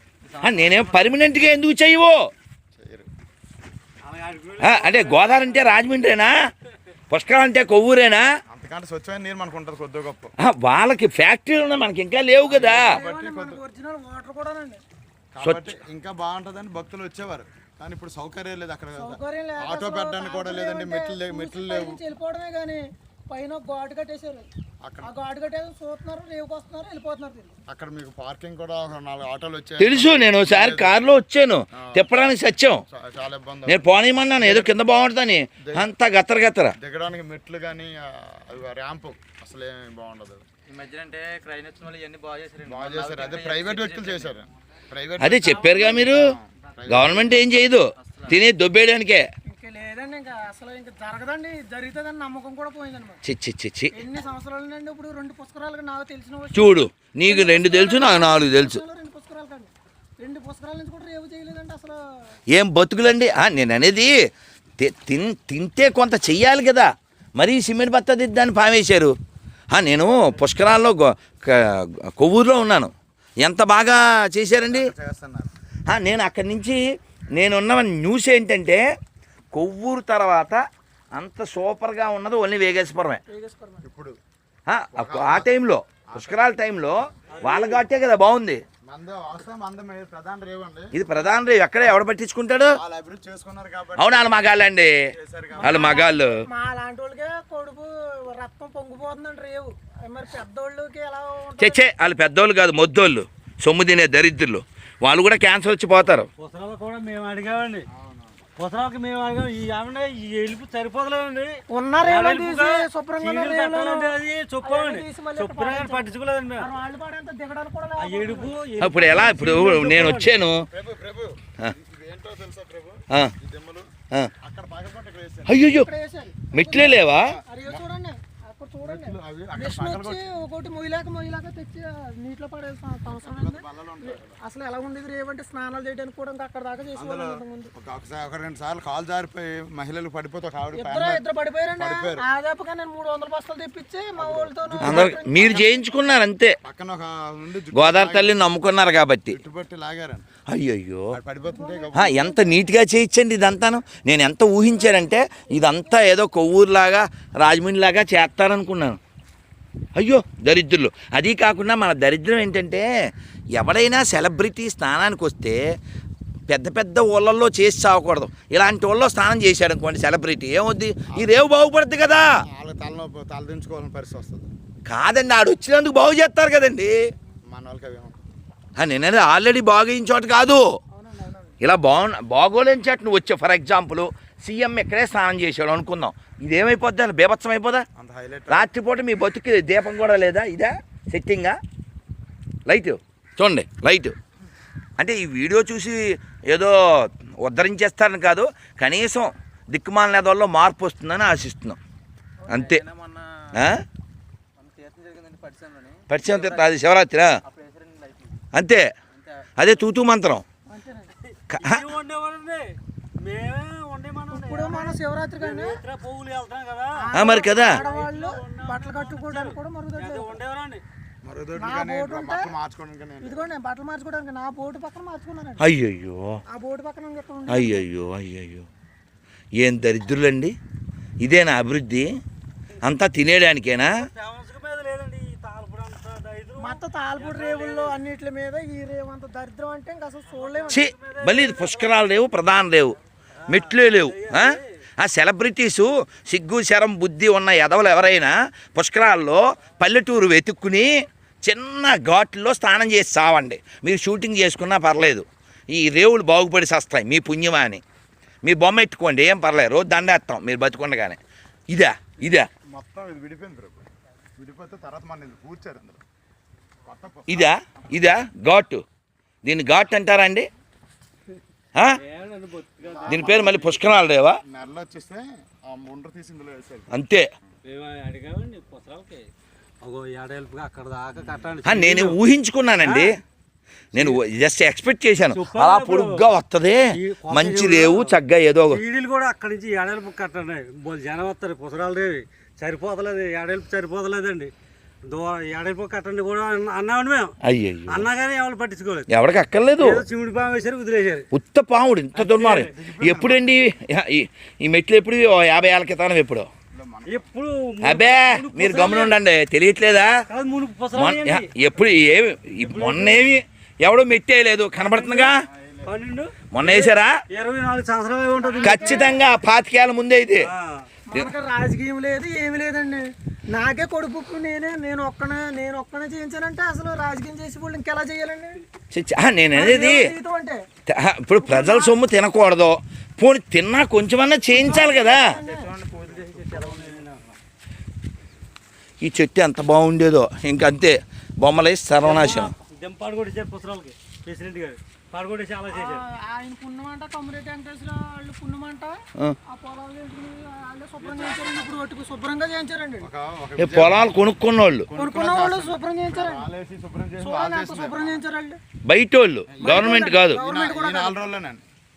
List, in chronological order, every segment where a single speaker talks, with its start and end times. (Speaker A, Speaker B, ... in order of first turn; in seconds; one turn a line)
Speaker A: 0.2-1.1
Speaker B: 0.4-2.3
Speaker C: 2.8-3.1
Speaker D: 4.0-5.8
Speaker B: 4.6-6.4
Speaker B: 7.1-8.2
Speaker C: 8.5-10.3
Speaker B: 10.4-12.8
Speaker C: 12.5-13.6
Speaker E: 12.6-14.8
Speaker C: 15.3-22.0
Speaker B: 15.4-15.7
Speaker E: 19.0-24.5
Speaker C: 24.8-25.1
Speaker E: 25.0-27.6
Speaker C: 27.7-31.0
Speaker B: 29.8-32.8
Speaker C: 31.8-32.1
Speaker C: 32.9-33.9
Speaker B: 33.7-36.7
Speaker C: 34.4-34.7
Speaker C: 35.6-35.9
Speaker C: 36.8-40.5
Speaker A: 40.7-44.4
Speaker C: 42.6-47.4
Speaker B: 45.2-46.2
Speaker B: 46.9-49.2
Speaker A: 48.0-48.4
Speaker E: 49.5-53.2
Speaker B: 53.2-53.9
Speaker E: 53.9-62.0
Speaker B: 56.5-58.8
Speaker B: 62.5-64.1
Speaker B: 64.8-69.1
Speaker B: 69.7-74.9
Speaker C: 74.6-75.5
Speaker B: 75.9-76.8
Speaker B: 77.3-78.8
Speaker B: 79.5-80.6
Speaker B: 81.1-83.2
Speaker E: 83.3-83.9
Speaker C: 83.8-84.2
Speaker B: 84.7-88.6
Speaker C: 85.0-85.5
Speaker C: 86.1-86.5
Speaker D: 87.3-87.9
Speaker C: 88.8-91.0
Speaker B: 90.9-92.8
Speaker C: 92.8-94.3
Speaker B: 94.0-94.9
Speaker C: 95.1-96.0
Speaker E: 95.5-101.8
Speaker B: 95.6-96.3
Speaker B: 101.6-106.3
Speaker D: 106.4-107.8
Speaker C: 107.9-108.4
Speaker D: 108.6-116.7
Speaker E: 111.7-118.6
Speaker D: 118.0-120.3
Speaker B: 118.8-120.6
Speaker C: 120.7-125.7
Speaker B: 125.5-125.9
Speaker E: 125.7-137.7
Speaker B: 126.5-127.3
Speaker C: 127.1-127.8
Speaker C: 128.8-130.3
Speaker C: 133.2-134.4
Speaker C: 136.9-141.2
Speaker E: 140.8-145.7
Speaker C: 141.8-142.2
Speaker C: 144.2-145.7
Speaker B: 144.8-146.6
Speaker C: 146.6-148.4
Speaker B: 147.7-149.4
Speaker C: 149.3-150.3
Speaker B: 150.5-151.1
Speaker C: 151.1-152.2
Speaker E: 151.4-152.6
Speaker B: 151.9-159.0
Speaker E: 154.6-156.1
Speaker B: 160.0-162.9
Speaker B: 163.6-165.6
Speaker B: 166.5-172.2
Speaker C: 171.1-171.4
Speaker C: 172.4-174.5
Speaker B: 174.9-177.0
Speaker C: 177.5-178.2
Speaker B: 178.8-180.7
Speaker E: 180.9-181.6
Speaker B: 181.6-187.9
Speaker C: 188.0-188.7
Speaker B: 188.5-191.6
Speaker B: 192.7-194.2
Speaker B: 195.0-201.8
Speaker A: 202.4-203.5
Speaker B: 202.5-202.8
Speaker B: 203.6-203.8
Speaker A: 204.6-206.7
Speaker B: 206.1-207.3
Speaker A: 207.5-208.4
Speaker B: 208.5-208.8
Speaker A: 209.1-209.5
Speaker B: 209.6-210.4
Speaker E: 210.7-211.1
Speaker D: 211.3-220.8
Speaker B: 211.5-211.8
Speaker E: 214.3-215.8
Speaker E: 217.0-220.3
Speaker B: 217.2-217.8
Speaker C: 221.2-223.5
Speaker E: 221.6-222.5
Speaker E: 223.2-225.6
Speaker B: 225.6-226.4
Speaker E: 226.5-227.8
Speaker B: 227.5-228.7
Speaker B: 229.6-230.5
Speaker B: 231.2-232.1
Speaker B: 232.8-234.0
Speaker D: 233.9-238.0
Speaker E: 236.6-240.9
Speaker D: 240.3-242.2
Speaker B: 240.7-257.8
Speaker D: 243.4-244.7
Speaker B: 258.4-262.5
Speaker C: 262.7-263.9
Speaker C: 264.4-266.0
Speaker C: 266.9-267.5
Speaker B: 267.3-268.8
Speaker B: 269.4-270.5
Speaker D: 272.0-273.5
Speaker C: 272.9-273.8
Speaker B: 273.1-274.4
Speaker C: 274.4-276.9
Speaker B: 276.9-277.3
Speaker D: 277.6-279.3
Speaker D: 279.8-282.2
Speaker C: 281.2-281.5
Speaker B: 281.6-283.2
Speaker D: 282.8-283.2
Speaker B: 283.9-288.8
Speaker D: 285.3-286.2
Speaker D: 286.9-288.2
Speaker D: 288.7-294.5
Speaker D: 295.0-297.3
Speaker B: 297.4-298.1
Speaker D: 297.9-299.1
Speaker B: 299.1-300.0
Speaker D: 299.8-301.3
Speaker B: 301.3-306.5
Speaker D: 302.1-302.7
Speaker C: 302.7-303.6
Speaker C: 306.7-307.3
Speaker D: 307.1-309.1
Speaker B: 307.8-310.1
Speaker D: 310.3-311.5
Speaker B: 310.9-315.3
Speaker D: 312.6-313.3
Speaker D: 314.9-315.3
Speaker C: 315.0-315.9
Speaker D: 315.8-319.2
Speaker B: 316.5-317.1
Speaker E: 318.4-319.2
Speaker B: 318.6-320.5
Speaker D: 320.4-320.9
Speaker E: 321.1-328.6
Speaker B: 328.9-330.1
Speaker E: 329.5-330.6
Speaker B: 330.9-335.3
Speaker E: 331.4-332.0
Speaker E: 334.5-335.7
Speaker C: 335.4-337.0
Speaker D: 336.0-337.4
Speaker B: 339.0-342.5
Speaker D: 342.0-346.1
Speaker E: 345.7-353.1
Speaker C: 353.0-354.3
Speaker B: 353.6-354.9
Speaker C: 354.9-358.2
Speaker E: 354.9-356.5
Speaker E: 357.2-358.6
Speaker B: 358.9-360.4
Speaker C: 359.5-361.6
Speaker E: 359.6-361.2